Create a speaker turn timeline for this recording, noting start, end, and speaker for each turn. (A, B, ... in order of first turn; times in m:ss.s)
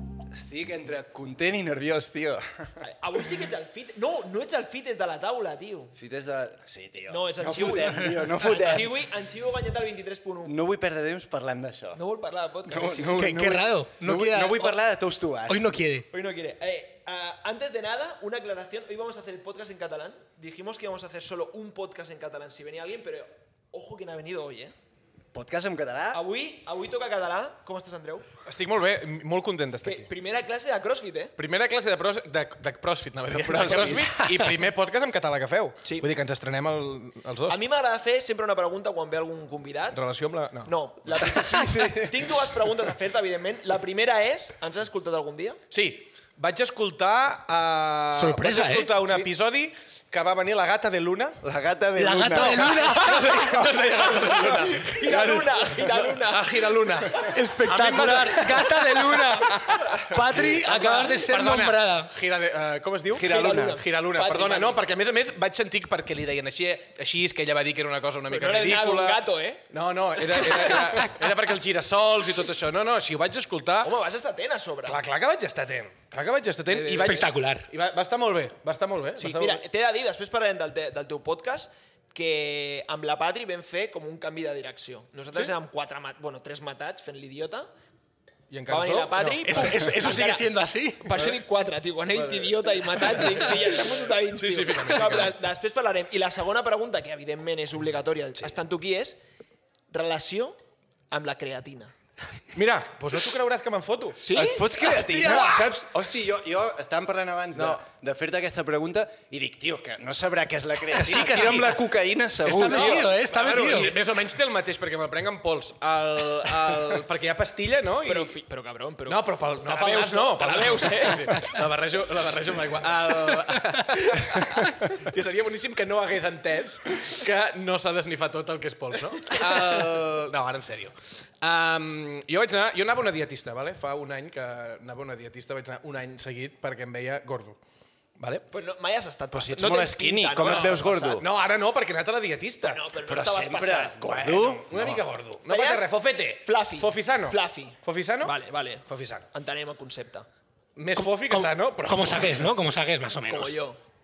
0:00.3-0:02.7 A
0:02.8-0:05.9 B
0:05.9-0:09.0 A
0:07.1-0:10.6 B
0:10.4-0:12.0 A
0:11.9-0:13.2 B
0:12.6-0:15.7 A
0:13.1-0:14.8 C
0:15.5-0:16.0 C
0:16.1-0:24.7 B
0:25.3-0:26.2 A
0:26.1-0:28.3 B
0:28.4-0:30.1 D
0:29.8-0:31.3 B
0:31.4-0:37.6 D
0:33.3-0:34.2 A
0:37.5-0:40.0 B
0:39.9-0:40.7 D
0:40.6-0:45.6 B
0:41.1-0:42.3 A
0:45.7-0:51.4 D
0:48.1-0:49.0 C
0:51.4-0:53.7 A
0:52.0-0:53.6 C
0:52.4-1:13.9 D
0:52.6-0:57.2 B
0:57.2-1:02.1 C
0:59.7-1:00.0 B
1:00.1-1:00.4 A
1:03.1-1:03.8 A
1:03.2-1:04.8 B
1:08.3-1:09.6 B
1:10.3-1:10.8 B
1:13.8-1:15.0 B
1:14.8-1:19.6 D
1:16.7-1:17.3 B
1:17.0-1:17.7 C
1:19.2-1:27.7 B
1:28.5-1:29.8 D
1:28.7-1:39.2 B
1:29.4-1:31.3 C
1:32.1-1:35.3 D
1:39.9-1:40.6 B
1:41.1-1:41.9 B
1:42.5-1:44.2 D
1:44.2-1:44.7 B
1:44.3-1:53.1 A
1:45.0-1:45.4 D
1:45.1-1:45.6 C
1:47.5-1:47.8 D
1:50.9-1:51.8 D
1:52.4-1:53.9 C
1:52.6-1:58.4 D
1:53.7-1:53.9 A
1:58.0-2:01.4 B
1:59.1-2:17.6 D
2:18.2-2:18.4 D
2:18.5-2:21.2 B
2:19.3-2:21.2 A
2:20.4-2:22.8 D
2:22.6-2:24.0 B
2:23.0-2:25.0 A
2:24.1-2:29.2 D
2:25.4-2:30.3 B
2:30.8-2:32.5 D
2:31.0-2:33.6 C
2:33.3-2:33.8 B